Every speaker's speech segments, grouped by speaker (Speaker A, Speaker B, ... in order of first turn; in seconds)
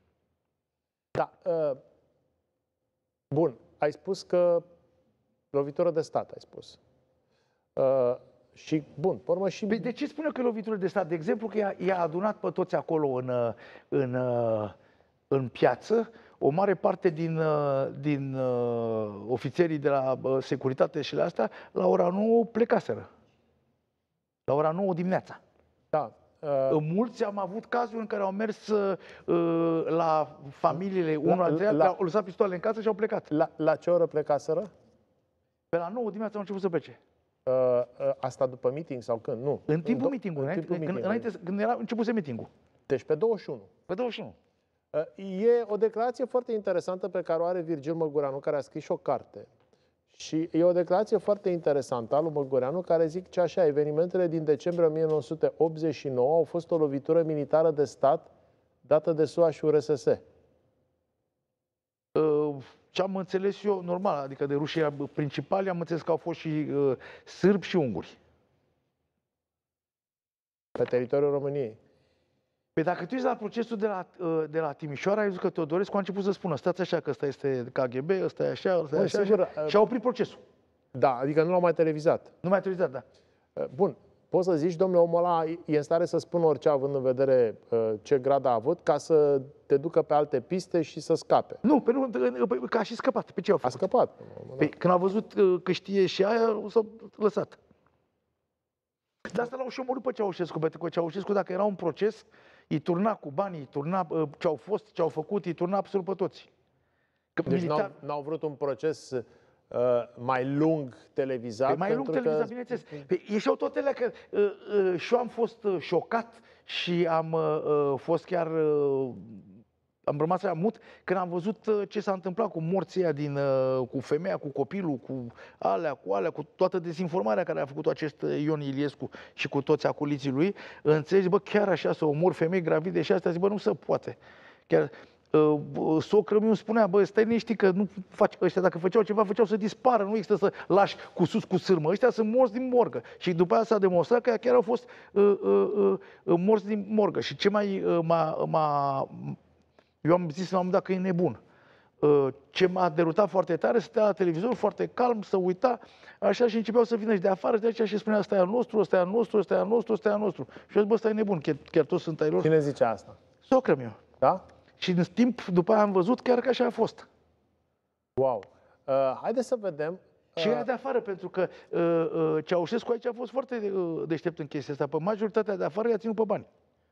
Speaker A: 1.1-1.8, 3.3-4.6, 5.5-6.8, 7.8-9.9, 25.9-26.8, 31.2-31.9, 33.3-34.7, 37.5-41.3, 42.9-43.7, 44.9-49.5, 50.1-58.3, 58.8-60.2, 70.8-71.8, 78.9-79.8, 80.9-82.3, 83.6-91.6, 93.6-94.7, 107.5-113.0, 162.4-163.2, 168.2-170.7
Speaker B: 9.7-14.7, 15.3-23.1, 24.5-25.4, 26.7-33.3, 35.7-37.0, 39.7-42.5, 43.9-44.3, 62.1-68.2, 72.8-80.4, 82.4-83.0, 91.6-93.8, 94.6-97.6, 99.3-106.5, 107.3-107.9, 111.7-119.4, 120.0-134.2, 134.7-149.4, 150.0-151.4, 152.0-162.5, 163.4-164.0, 164.8-167.1, 170.4-176.5